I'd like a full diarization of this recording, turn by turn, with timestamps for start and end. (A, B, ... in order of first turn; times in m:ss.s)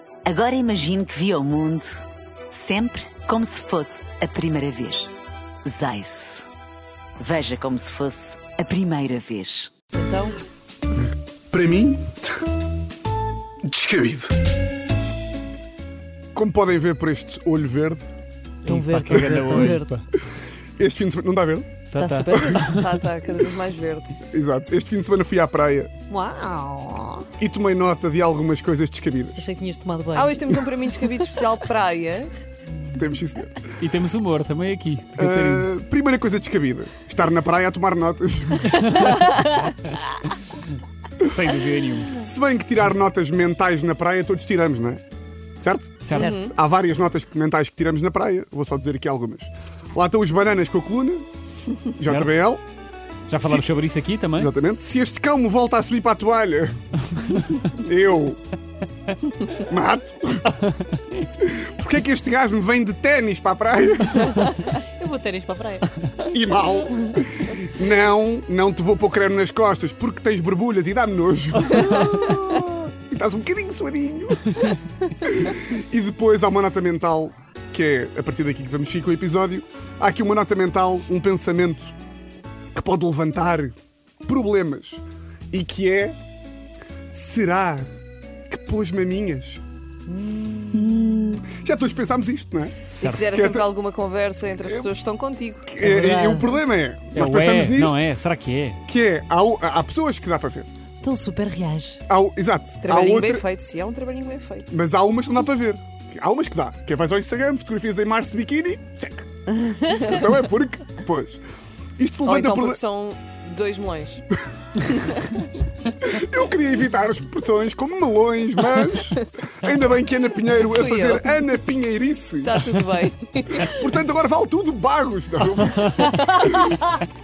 0:00.2-0:05.1 A
0:05.6-0:06.4 A
0:07.2-0:09.7 A
0:09.9-0:10.4 B
0:11.5-0:12.2 C
0:13.6-0:14.3 C
0:16.3-0:18.0 C
0:18.6-0:20.0 D
0:18.6-0:19.9 B
0:19.1-0:19.7 C
0:20.8-0:21.8 C
0:21.9-0:22.9 D
0:22.0-0:22.7 B
0:22.6-0:24.2 E
0:24.3-0:25.9 C
0:26.1-0:27.2 B
0:27.4-0:29.4 C
0:29.4-0:30.7 B
0:30.1-0:32.3 E
0:32.9-0:33.6 C
0:33.8-0:35.7 D
0:35.2-0:38.8 C
0:38.7-0:39.3 D
0:41.2-0:42.2 D
0:42.1-0:45.0 C
0:45.6-0:51.2 C
0:46.0-0:46.3 D
0:46.2-0:46.5 B
0:46.2-0:46.5 E
0:52.0-0:52.6 C
0:52.0-0:52.3 D
0:53.3-0:54.5 D
0:53.4-0:53.6 C
0:54.3-0:56.7 C
0:57.6-0:58.4 C
0:59.6-1:00.5 C
1:01.4-1:04.5 C
1:04.7-1:05.9 B
1:06.3-1:21.9 C
1:22.7-1:23.7 C
1:24.2-1:26.1 C
1:27.1-1:27.9 C
1:28.5-1:29.6 C
1:30.2-1:31.4 B
1:30.7-1:33.7 C
1:32.8-1:33.3 D
1:33.0-1:35.7 E
1:34.6-1:34.9 C
1:35.7-1:38.0 C
1:35.8-1:36.5 B
1:37.1-1:38.8 D
1:38.8-1:40.7 C
1:41.0-1:42.0 B
1:42.1-1:43.4 C
1:42.8-1:44.8 E
1:44.7-1:51.4 C
1:52.0-1:52.8 C
1:52.2-1:54.2 E
1:56.0-2:02.6 C
2:00.6-2:01.4 E
2:02.4-2:03.8 E
2:03.5-2:06.9 C